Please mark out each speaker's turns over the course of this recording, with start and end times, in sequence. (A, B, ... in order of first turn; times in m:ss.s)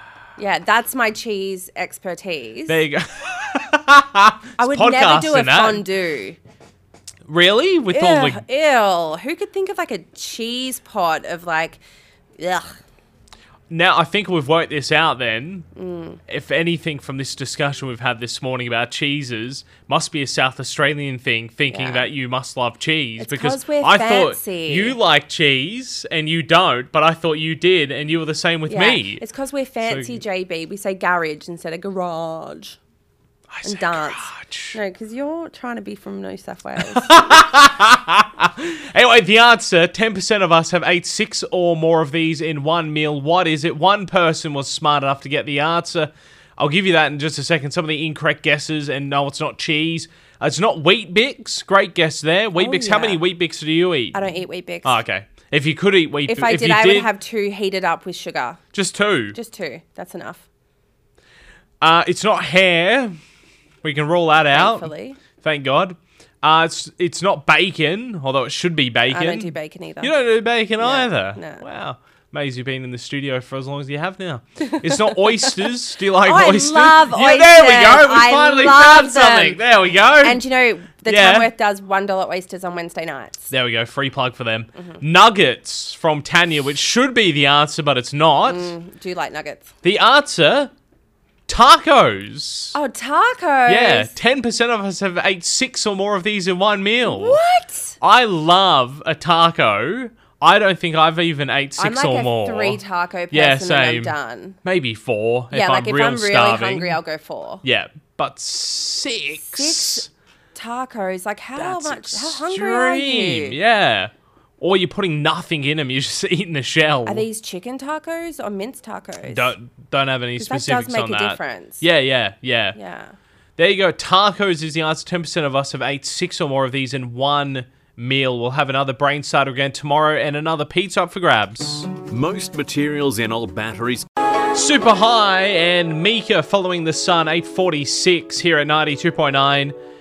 0:00.4-0:02.8 A
0:02.7-0:05.9 B
0:04.6-0:06.4 A
0:07.3-0:08.4 B
0:07.9-0:11.8 A
0:12.4-0:12.7 A
0:13.7-0:15.7 B
0:15.8-0:16.2 A
0:16.3-0:29.2 B
0:21.7-0:22.1 A
0:23.2-0:25.0 A
0:28.7-0:32.8 A
0:29.8-0:30.2 B
0:33.5-0:34.8 B
0:33.6-0:37.4 A
0:36.8-0:54.2 B
0:52.6-0:53.2 A
0:54.1-0:55.0 A
0:54.8-0:57.1 B
0:56.3-0:58.6 A
0:58.7-0:59.4 B
0:59.3-1:00.4 A
1:01.8-1:03.1 B
1:03.8-1:20.4 B
1:04.5-1:05.2 A
1:09.1-1:10.1 A
1:10.8-1:11.6 A
1:14.6-1:15.0 A
1:16.2-1:19.6 A
1:20.2-1:23.5 A
1:21.0-1:21.5 B
1:23.5-1:28.8 B
1:28.4-1:29.7 A
1:29.8-1:30.7 B
1:31.5-1:32.8 B
1:32.7-1:34.1 A
1:33.7-1:37.4 B
1:37.0-1:38.0 A
1:38.0-1:47.0 B
1:41.8-1:44.6 A
1:45.5-1:47.6 A
1:47.6-1:50.1 B
1:49.4-1:53.6 A
1:51.6-1:57.3 B
1:57.1-1:59.6 A
1:59.2-2:02.8 B
2:00.4-2:01.9 A
2:02.8-2:03.2 A
2:03.6-2:12.0 B
2:12.0-2:14.1 C
2:14.5-2:19.8 B